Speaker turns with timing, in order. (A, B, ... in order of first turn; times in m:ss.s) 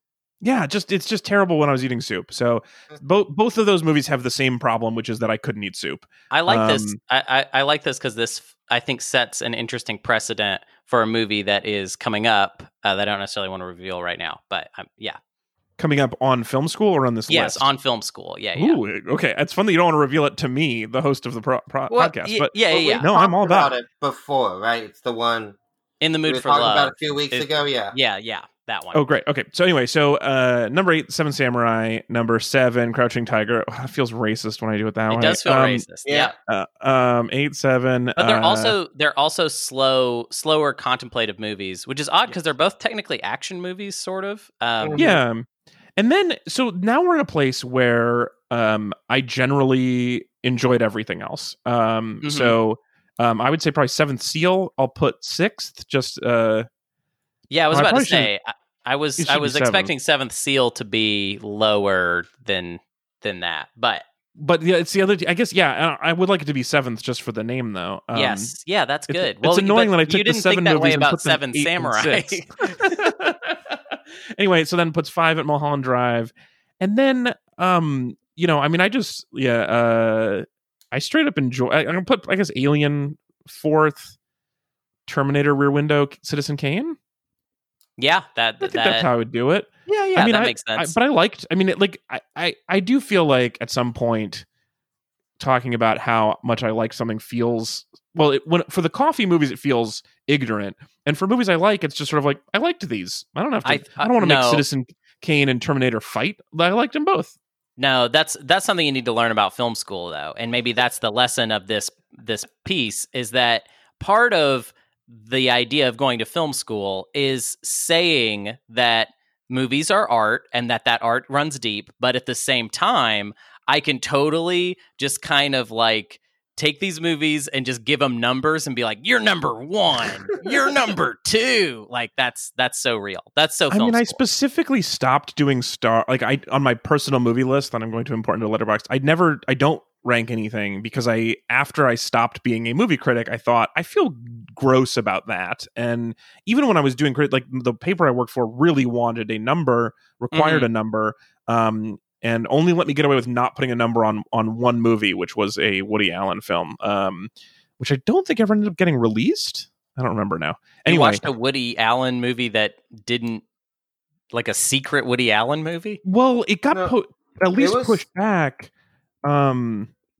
0:00.4-0:07.0 A
0:06.3-0:15.2 B
0:15.8-0:17.6 A
0:17.3-0:18.8 B
0:18.6-0:23.7 A
0:21.9-0:23.0 B
0:22.7-0:25.6 C
0:26.0-0:29.0 B
0:26.2-0:27.9 C
0:28.9-0:35.8 A
0:35.1-0:36.3 B
0:36.0-0:36.3 C
0:36.4-0:38.7 A
0:38.2-0:45.2 B
0:45.0-0:45.4 A
0:46.0-0:56.7 A
0:52.2-0:52.5 B
0:57.5-1:04.0 B
0:57.7-0:58.3 A
0:59.2-0:59.9 A
1:04.4-1:08.5 A
1:08.1-1:12.9 B
1:09.1-1:24.1 A
1:25.0-1:27.0 A
1:28.0-1:29.1 B
1:28.6-1:34.4 A
1:29.9-1:31.0 B
1:35.4-1:47.3 A
1:43.6-1:44.6 B
1:47.8-2:14.2 B
2:13.7-2:41.2 A
2:30.3-2:30.7 B
2:40.8-2:43.4 B
2:44.3-2:46.0 B
2:46.0-2:48.7 A
2:47.5-2:48.0 C
2:49.2-2:49.9 A